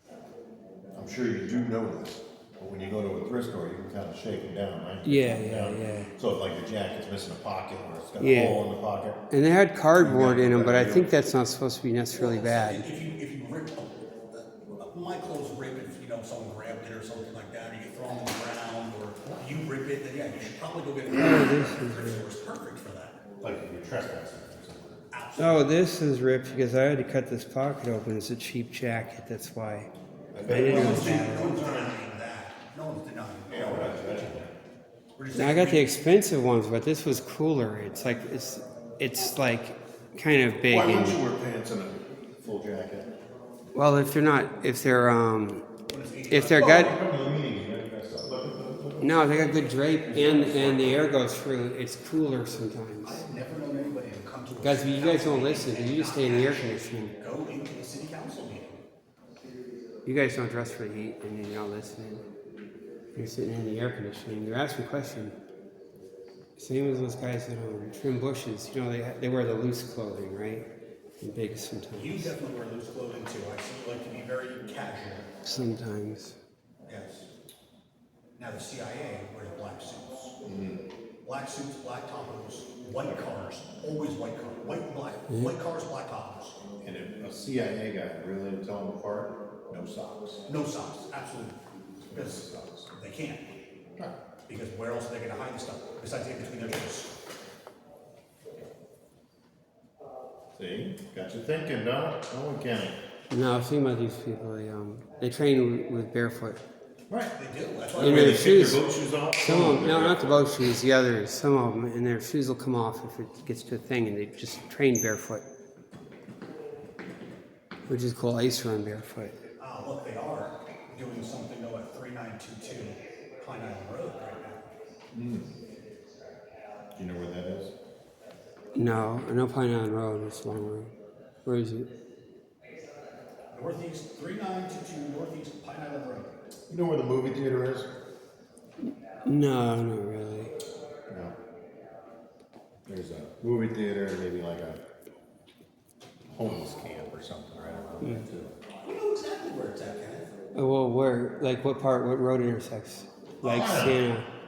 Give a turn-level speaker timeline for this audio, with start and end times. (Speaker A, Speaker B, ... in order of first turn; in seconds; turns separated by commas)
Speaker A: 0.9-9.2, Speaker B: 5.0-6.1, Speaker B: 8.2-8.6, Speaker B: 9.3-12.9, Speaker A: 10.0-11.1, Speaker C: 12.1-23.2, Speaker B: 21.1-22.3, Speaker A: 23.4-25.0, Speaker C: 25.1-25.8, Speaker B: 25.4-29.9, Speaker A: 30.3-32.0, Speaker B: 30.5-31.6, Speaker C: 30.5-34.5, Speaker A: 33.5-34.5, Speaker C: 35.2-35.9, Speaker B: 35.3-41.2, Speaker A: 40.7-43.1, Speaker B: 43.7-45.7, Speaker C: 45.9-47.0, Speaker B: 46.3-47.0, Speaker A: 46.5-49.2, Speaker B: 49.0-53.2, Speaker C: 49.4-51.0, Speaker C: 53.0-58.8, Speaker B: 54.6-57.2, Speaker B: 60.0-62.2, Speaker B: 63.1-65.4, Speaker B: 66.6-70.7, Speaker B: 71.2-72.3, Speaker C: 71.9-75.3, Speaker B: 75.4-76.4, Speaker C: 76.9-77.3, Speaker C: 78.4-80.4, Speaker A: 80.4-80.8, Speaker C: 81.2-86.6, Speaker B: 85.3-85.6, Speaker A: 86.8-90.5, Speaker C: 90.5-91.6, Speaker A: 92.0-92.9, Speaker C: 92.1-93.5, Speaker C: 94.5-97.2, Speaker A: 100.6-103.0, Speaker B: 103.3-106.6, Speaker C: 107.3-108.7, Speaker A: 108.0-110.5, Speaker B: 108.0-115.5, Speaker B: 117.9-119.4, Speaker C: 119.6-124.7, Speaker A: 125.1-125.5, Speaker A: 127.0-127.7, Speaker B: 128.7-130.9, Speaker B: 131.4-131.9, Speaker C: 133.5-136.3, Speaker A: 136.7-137.9, Speaker B: 139.2-140.5, Speaker A: 141.1-141.3, Speaker A: 142.9-144.8, Speaker A: 146.3-148.6, Speaker C: 148.8-150.3, Speaker B: 150.6-154.3, Speaker C: 153.4-153.8, Speaker A: 153.4-154.0